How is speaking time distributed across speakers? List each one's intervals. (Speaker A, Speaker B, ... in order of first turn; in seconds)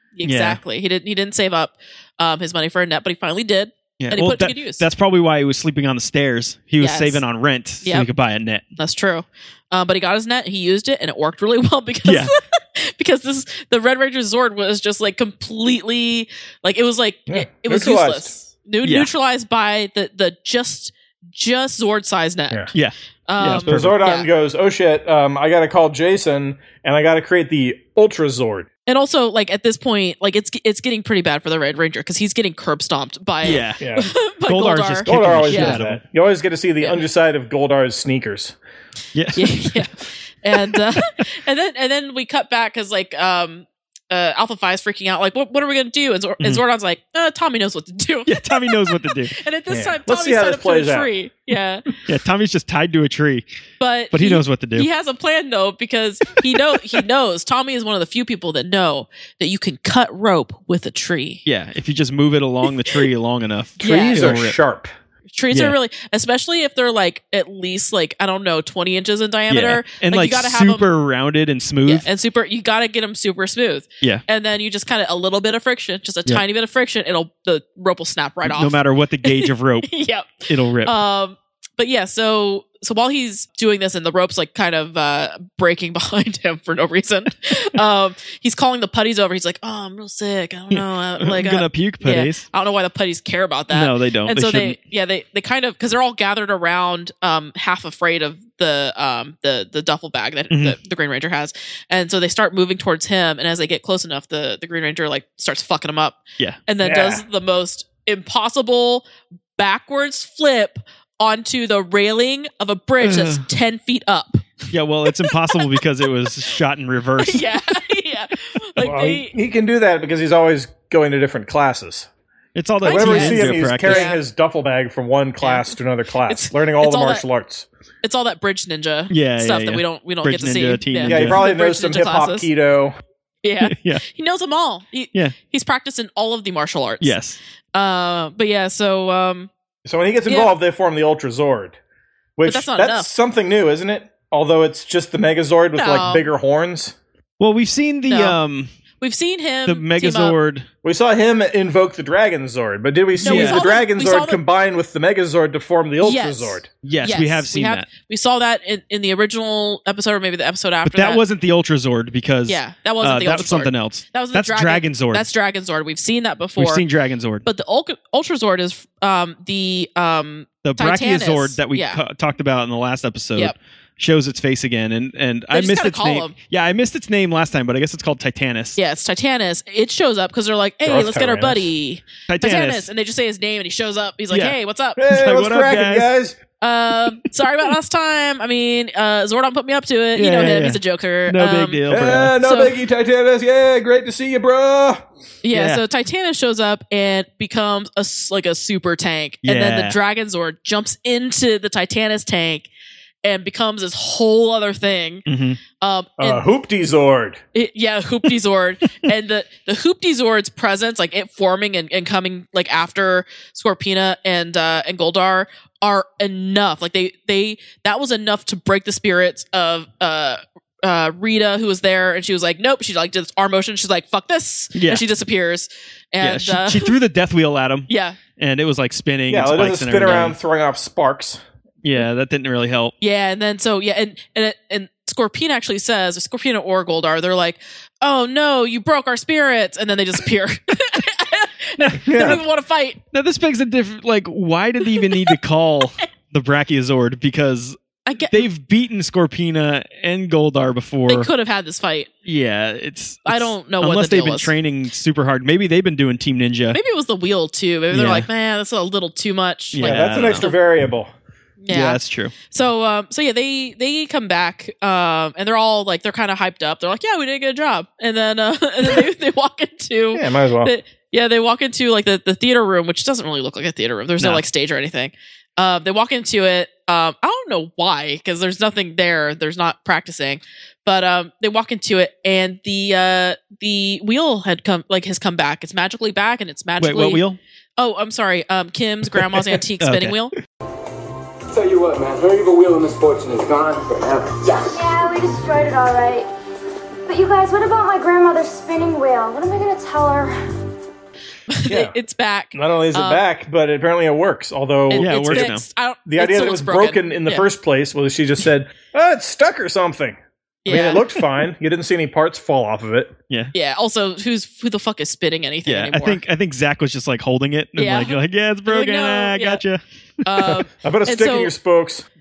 Speaker A: 0.1-4.8, 6.8-7.2, 7.8-8.1, 8.8-22.7, 23.3-24.3, 28.9-35.8, 39.3-51.9, 53.8-61.4, 63.8-64.4, 65.3-70.9, 71.8-114.5, 115.1-115.8, 117.2-119.3, 122.8-124.2, 125.4-125.7, 126.3-127.2, 128.0-132.5, 133.4-137.2, 137.7-139.5, 140.3-140.5, 142.4-143.1, 145.7-146.2, 148.1-148.4, 149.0-150.3, 153.2-154.4, 156.0-161.2, 162.5-166.8, 167.4-172.0, 175.5-176.3, 178.8-185.0, 186.6-192.8, 195.4-202.7, 203.2-205.2, 205.8-206.4, 207.5-227.0, 227.9-228.2, 233.0-243.0, 244.9-245.3, 248.1-248.5, 251.1-252.1, 253.2-254.5, 256.7-260.6, 261.6-287.2, 287.8-290.3, 301.5-303.2, 304.9-307.5, 310.6-311.1, 313.5-316.2, 317.8-319.6, 320.2-321.5
Speaker B: 0.2-0.6, 4.0-8.6, 12.0-12.3, 22.7-24.0, 33.4-33.9, 34.5-36.0, 39.1-39.8, 48.3-49.4, 52.0-53.5, 54.1-54.9, 61.5-64.6, 65.5-65.8, 69.5-72.1, 78.4-80.9, 90.7-92.4, 93.7-94.8, 100.5-100.8, 113.0-113.4, 114.7-117.5, 122.5-124.0, 129.1-131.4, 133.6-134.0, 137.0-137.4, 147.4-148.7, 149.7-150.7, 153.2-153.6, 156.8-157.8, 160.8-165.3, 166.6-167.4, 170.6-178.8, 182.3-182.9, 184.3-184.6, 185.1-186.1, 190.1-192.3, 195.5-195.8, 199.4-199.9, 205.3-205.6, 224.7-225.0, 226.2-230.3, 231.8-232.9, 241.8-242.4, 243.1-247.8, 248.3-251.3, 252.2-256.8, 257.9-258.3, 259.7-260.5, 261.7-262.3, 286.8-287.4, 289.2-290.2, 304.9-305.6, 315.7-320.6
Speaker C: 17.3-18.3, 23.6-28.7, 33.8-34.1, 35.0-38.5, 49.7-51.1, 63.8-64.9, 106.8-107.2, 118.8-122.1, 122.8-127.7, 131.1-132.9, 139.8-141.8, 142.4-146.9, 150.8-156.7, 180.8-181.7, 185.0-186.4, 191.9-195.0, 206.2-207.4, 229.3-231.4, 242.0-242.4, 259.8-261.1, 270.1-270.7, 301.7-301.9, 302.5-305.5, 306.1-313.1, 320.8-322.1
Speaker D: 291.5-294.8
Speaker E: 294.7-296.3, 297.1-300.4